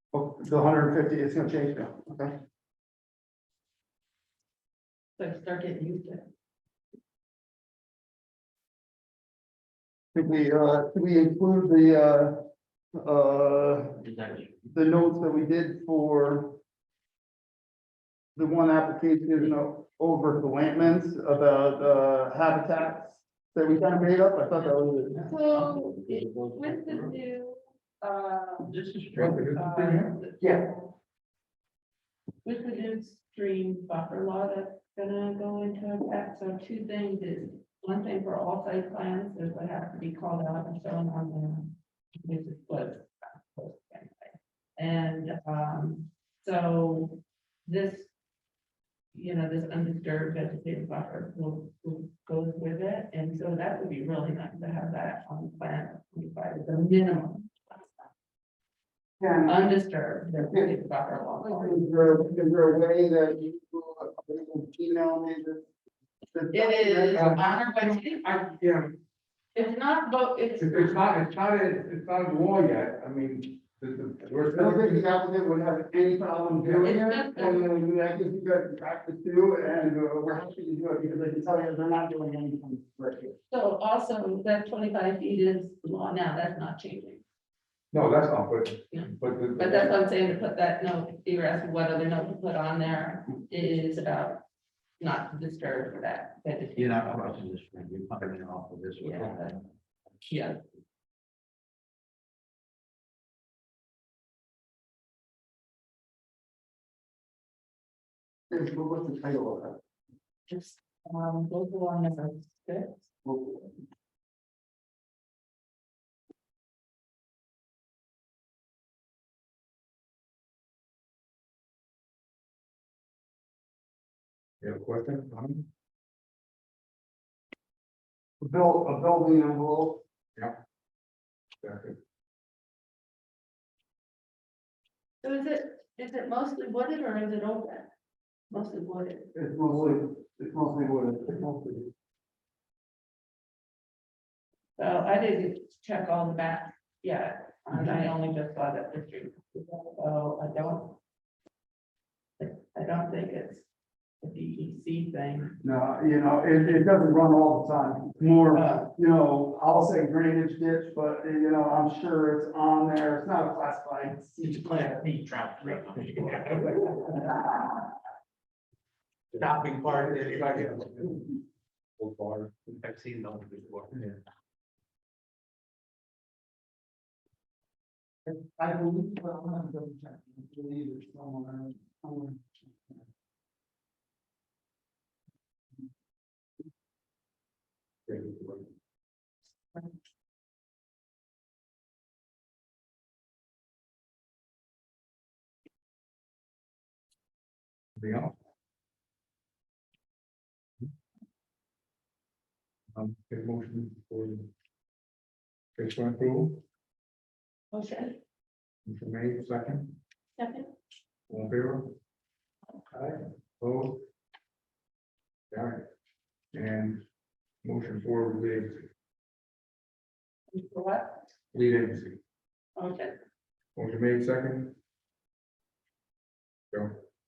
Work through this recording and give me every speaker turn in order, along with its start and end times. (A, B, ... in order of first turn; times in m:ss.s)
0:00.1-0:02.3 A
0:05.2-0:06.3 B
0:10.1-0:12.4 A
0:13.0-0:14.0 A
0:14.0-0:14.6 C
0:14.7-0:16.6 A
0:18.4-0:25.3 A
0:25.1-0:28.8 B
0:26.0-0:27.1 C
0:28.7-0:29.4 C
0:29.1-0:30.1 D
0:29.4-0:30.9 B
0:30.4-0:30.7 A
0:32.4-0:48.1 B
0:49.1-0:57.9 B
0:59.2-0:59.6 A
0:59.5-1:01.9 B
1:00.5-1:00.8 A
1:01.4-1:05.6 A
1:06.3-1:07.3 A
1:06.5-1:08.3 B
1:07.2-1:09.0 D
1:09.6-1:11.0 B
1:10.6-1:15.0 D
1:14.5-1:23.4 A
1:16.6-1:16.9 D
1:16.8-1:17.6 B
1:23.5-1:27.2 B
1:27.9-1:30.0 D
1:28.9-1:34.4 B
1:35.0-1:37.4 B
1:36.8-1:39.5 C
1:39.0-1:39.6 B
1:40.3-1:40.6 B
1:48.5-1:49.8 A
1:50.5-1:53.0 B
1:53.2-1:53.7 A
2:04.6-2:05.7 D
2:08.4-2:10.0 A
2:11.6-2:12.0 D
2:15.2-2:17.9 B
2:18.5-2:19.3 B
2:19.3-2:21.9 A
2:24.8-2:31.0 B
2:32.4-2:33.7 B
2:34.2-2:35.6 B
2:35.6-2:45.0 A
2:38.5-2:38.9 B
2:44.6-2:47.3 C
2:46.3-2:46.9 D
2:47.0-2:47.7 A
2:49.3-2:51.2 D
2:49.4-2:51.0 C
2:52.0-2:52.6 D
2:52.7-2:53.9 C
2:58.3-3:03.0 A
3:08.1-3:08.7 D
3:18.0-3:18.3 D
3:22.9-3:24.5 D
3:25.8-3:26.6 D
3:27.7-3:28.2 B
3:28.9-3:30.0 D
3:30.4-3:30.7 B
3:31.3-3:32.0 D
3:32.9-3:34.0 D
3:35.5-3:35.8 D
3:36.5-3:37.0 D
3:37.6-3:38.8 D
3:40.5-3:41.2 B
3:41.5-3:42.2 D
3:42.8-3:43.1 B
3:43.8-3:44.8 D